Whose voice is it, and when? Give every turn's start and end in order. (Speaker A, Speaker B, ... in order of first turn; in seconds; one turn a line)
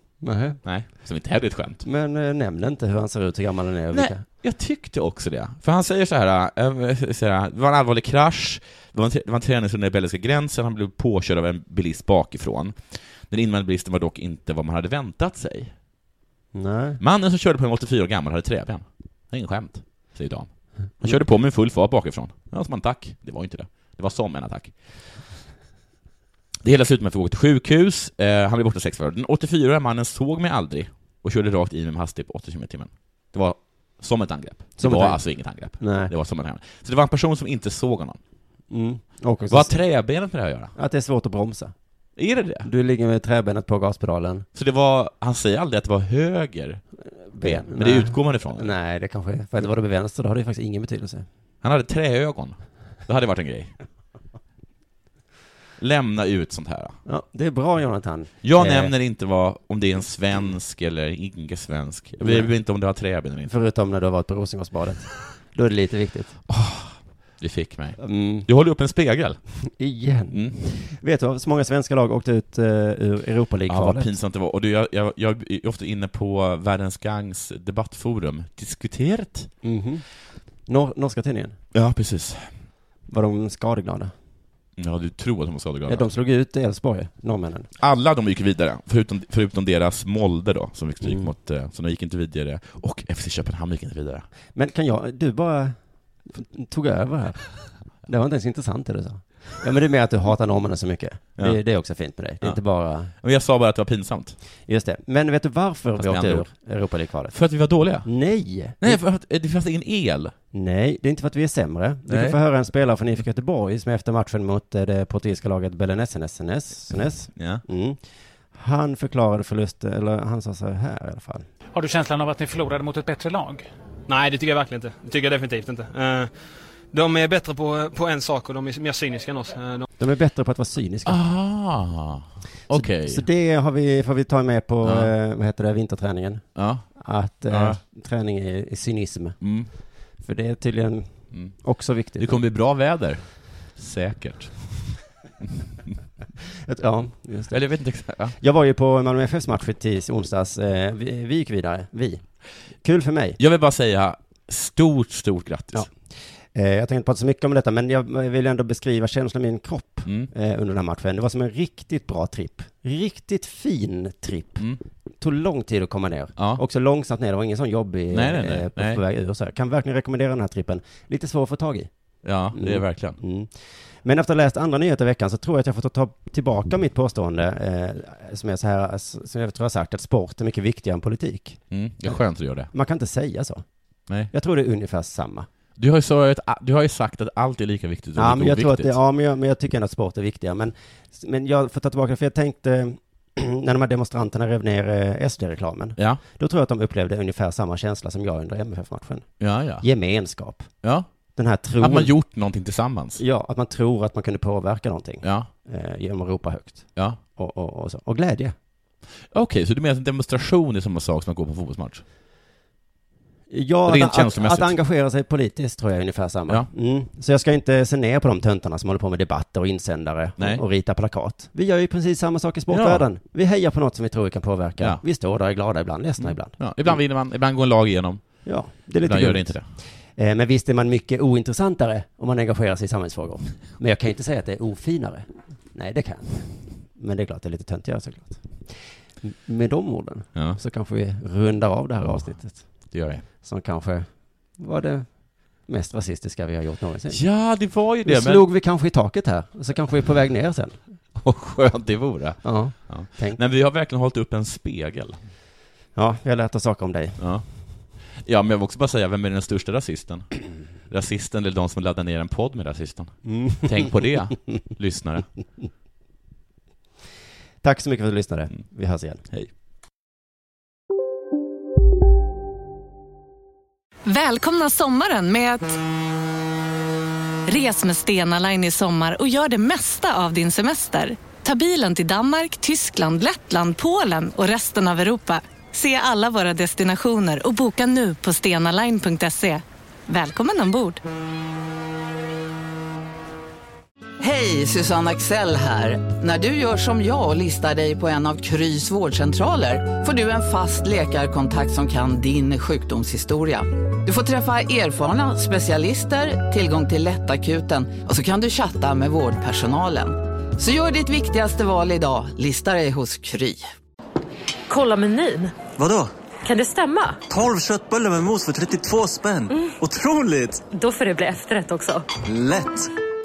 Speaker A: 0.2-0.6
Speaker B: 0.6-1.8
Speaker A: 1.8-4.2
Speaker B: 3.9-15.7
Speaker A: 16.5-17.0
Speaker B: 17.0-20.5
Speaker B: 21.0-24.8
Speaker B: 26.6-38.2
Speaker A: 34.8-36.1
Speaker A: 38.7-39.8
Speaker B: 39.5-40.7
Speaker A: 40.8-41.7
Speaker B: 42.2-42.7
Speaker A: 42.6-44.5
Speaker B: 44.5-46.8
Speaker A: 47.3-51.3
Speaker B: 47.4-48.7
Speaker B: 51.6-53.7
Speaker B: 55.8-57.0
Speaker A: 57.1-58.9
Speaker B: 58.4-63.5
Speaker A: 62.2-62.5
Speaker A: 63.4-66.4
Speaker B: 66.5-69.4
Speaker A: 68.0-68.5
Speaker A: 69.7-74.1
Speaker B: 70.3-70.6
Speaker B: 73.7-79.5
Speaker A: 79.6-80.1
Speaker A: 80.7-81.6
Speaker B: 81.7-82.5
Speaker A: 83.1-84.1
Speaker B: 84.8-86.1
Speaker A: 85.9-87.7
Speaker B: 87.8-94.2
Speaker A: 91.0-91.3
Speaker A: 94.5-103.1
Speaker B: 103.1-104.4
Speaker A: 104.7-107.4
Speaker B: 106.0-106.5
Speaker B: 107.3-108.1
Speaker A: 108.0-109.0
Speaker B: 108.8-110.3
Speaker A: 110.5-118.0
Speaker B: 112.1-112.4
Speaker B: 117.3-117.6
Speaker A: 118.5-121.5
Speaker C: 121.7-123.7
Speaker D: 124.1-126.3
Speaker D: 126.9-129.9
Speaker A: 130.0-131.2
Speaker B: 131.1-133.2
Speaker A: 132.7-139.4
Speaker B: 134.8-135.1
Speaker B: 136.6-137.8
Speaker B: 139.4-139.7
Speaker A: 140.2-142.4
Speaker B: 142.2-145.0
Speaker A: 146.7-147.6
Speaker B: 147.5-148.4
Speaker A: 148.4-152.3
Speaker A: 152.8-153.4
Speaker B: 153.4-155.9
Speaker A: 155.7-164.6
Speaker B: 160.1-160.3
Speaker A: 165.2-171.9
Speaker B: 166.4-166.6
Speaker B: 168.1-169.0
Speaker B: 172.2-173.2
Speaker A: 172.5-182.2
Speaker B: 181.7-182.7
Speaker A: 182.7-183.6
Speaker A: 184.3-185.5
Speaker B: 185.8-189.0
Speaker A: 188.2-200.7
Speaker B: 199.4-199.9
Speaker B: 200.8-201.1
Speaker A: 201.4-202.1
Speaker B: 201.8-203.2
Speaker A: 203.2-208.6
Speaker B: 205.2-205.5
Speaker B: 209.3-212.0
Speaker A: 213.5-227.0
Speaker B: 213.9-214.8
Speaker B: 220.4-220.6
Speaker B: 222.7-223.1
Speaker B: 226.2-229.7
Speaker A: 228.4-247.2
Speaker B: 242.9-243.2
Speaker B: 247.1-248.5
Speaker A: 248.1-250.8
Speaker B: 251.2-255.2
Speaker A: 252.4-253.4
Speaker A: 255.9-257.2
Speaker B: 257.2-257.4
Speaker B: 258.1-265.3
Speaker A: 263.2-264.0
Speaker A: 267.6-269.2
Speaker E: 274.1-275.8
Speaker E: 277.5-291.0
Speaker F: 294.2-313.6
Speaker G: 314.7-315.6
Speaker G: 316.4-317.2
Speaker H: 317.4-319.1
Speaker G: 319.5-319.8
Speaker H: 320.0-320.4
Speaker G: 320.6-322.1